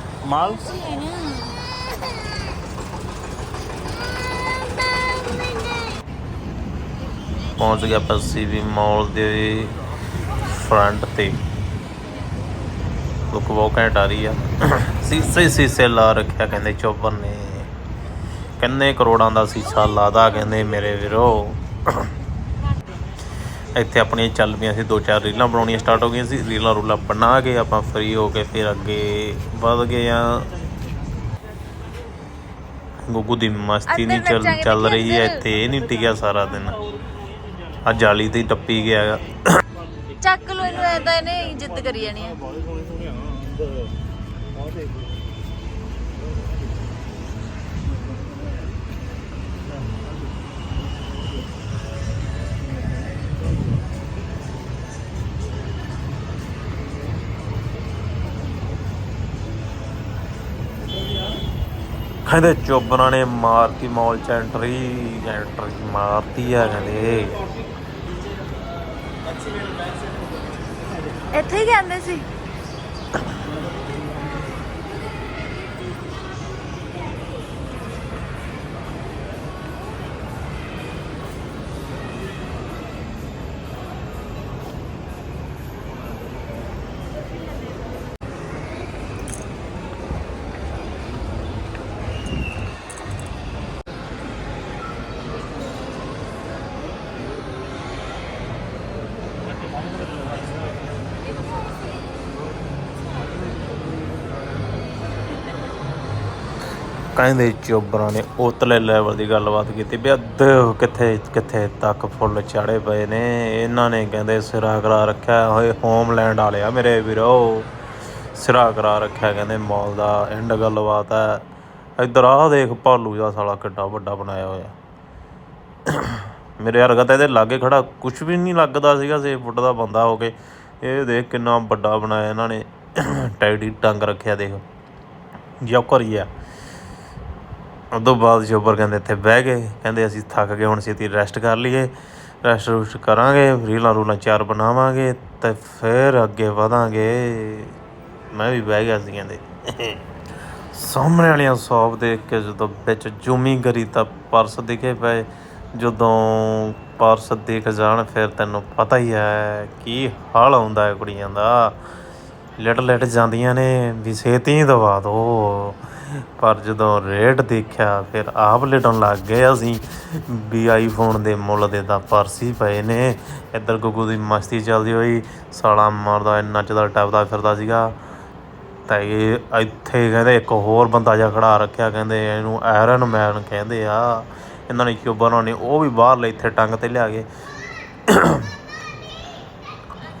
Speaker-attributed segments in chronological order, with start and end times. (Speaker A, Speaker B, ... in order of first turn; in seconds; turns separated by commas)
Speaker A: 0.2-0.7, Speaker B: 0.6-1.6, Speaker C: 7.6-9.8, Speaker C: 10.3-11.4, Speaker C: 13.3-17.7, Speaker C: 18.6-22.1, Speaker C: 23.7-30.5, Speaker C: 33.0-36.8, Speaker B: 33.9-35.5, Speaker A: 35.7-37.2, Speaker A: 37.7-38.2, Speaker C: 37.8-39.6, Speaker A: 39.9-43.9, Speaker B: 40.2-42.4, Speaker C: 62.2-67.4, Speaker A: 69.2-71.3, Speaker B: 71.3-72.2, Speaker A: 99.8-100.5, Speaker C: 107.2-117.7, Speaker C: 118.3-121.4, Speaker C: 122.0-124.7, Speaker C: 125.9-134.6, Speaker C: 135.6-136.3, Speaker C: 137.9-147.8, Speaker C: 148.3-150.0, Speaker C: 150.7-161.8, Speaker C: 162.6-178.0, Speaker C: 178.8-187.3, Speaker C: 188.1-188.5